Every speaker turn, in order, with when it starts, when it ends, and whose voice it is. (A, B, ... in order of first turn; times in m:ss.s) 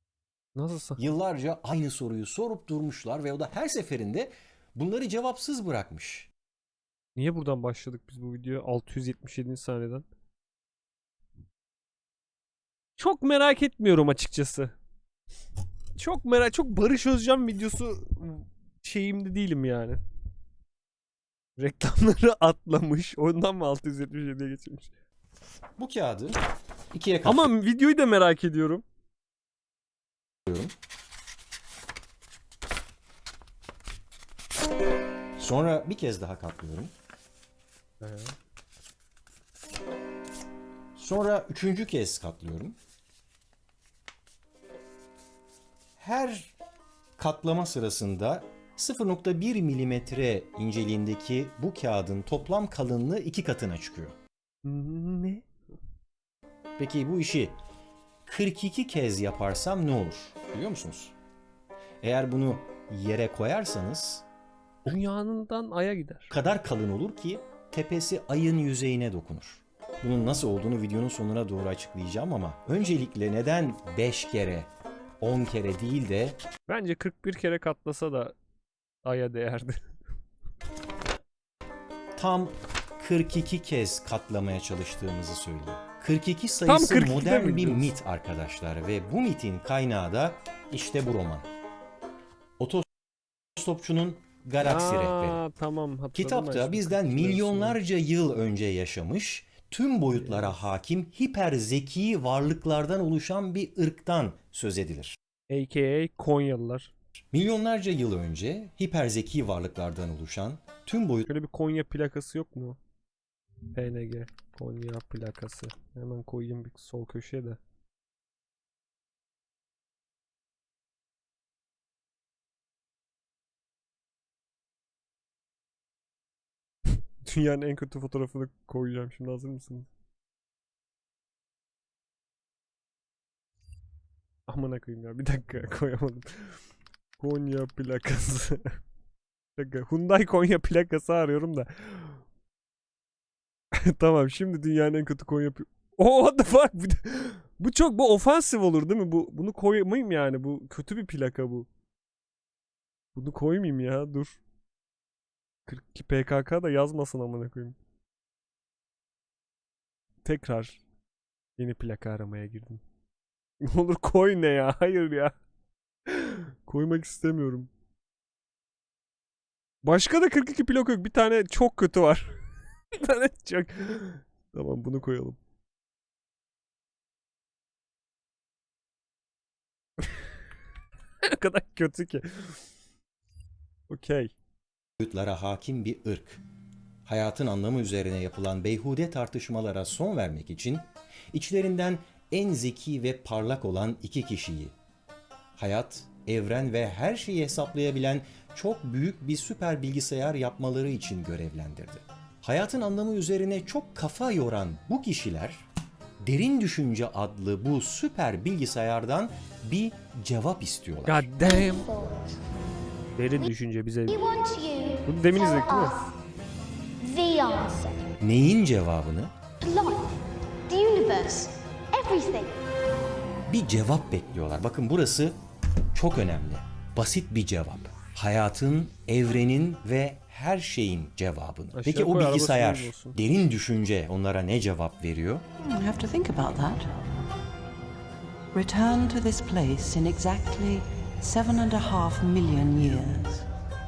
0:00.6-0:01.0 A
0:01.0-0:06.3 B
0:07.2-0:10.1 A
0:13.0-0:14.8 A
0:16.0-0:20.0 A
0:21.6-0:24.9 A
0:25.8-0:26.4 B
0:26.9-0:27.5 B
0:27.2-0:28.8 A
0:30.5-0:30.7 B
0:35.4-0:36.9 B
0:38.0-0:38.4 A
0:41.0-0:42.8 B
0:46.0-0:46.6 B
0:47.2-0:54.2 B
0:54.6-0:55.5 A
0:56.8-0:57.6 B
0:58.3-1:01.1 B
1:02.0-1:04.2 B
1:04.8-1:06.3 A
1:06.3-1:14.7 B
1:15.2-1:16.4 B
1:16.7-1:18.4 A
1:19.0-1:19.9 A
1:22.2-1:31.5 B
1:26.7-1:27.9 A
1:32.6-1:32.9 B
1:33.6-1:35.4 B
1:34.6-1:37.8 A
1:36.2-1:45.2 B
1:40.1-1:40.6 A
1:45.5-1:46.9 A
1:47.3-1:51.3 B
1:51.3-1:52.8 A
1:53.7-1:57.6 A
2:07.2-2:09.9 A
2:14.5-2:16.6 A
2:17.2-2:18.8 A
2:19.6-2:22.2 A
2:23.8-2:31.7 A
2:33.2-2:34.4 A
2:35.7-2:37.8 A
2:40.2-2:40.8 A
2:41.6-2:42.8 A
2:43.6-2:45.4 A
2:46.1-2:47.7 A
2:49.8-2:52.4 A
2:52.9-2:55.4 A
3:01.2-3:02.6 A
3:03.9-3:04.3 A
3:05.0-3:06.4 B
3:07.1-3:14.8 B
3:15.6-3:25.7 B
3:26.2-3:31.3 B
3:31.0-3:31.9 A
3:31.4-3:32.3 C
3:33.2-3:34.3 A
3:34.1-3:36.0 C
3:35.1-3:36.1 A
3:37.0-3:38.0 C
3:38.2-3:39.3 B
3:39.6-3:40.1 C
3:40.7-3:42.6 C
3:43.5-3:45.4 B
3:45.9-3:55.4 B
3:51.7-3:53.2 A
3:55.6-3:56.9 D
3:58.5-4:03.4 D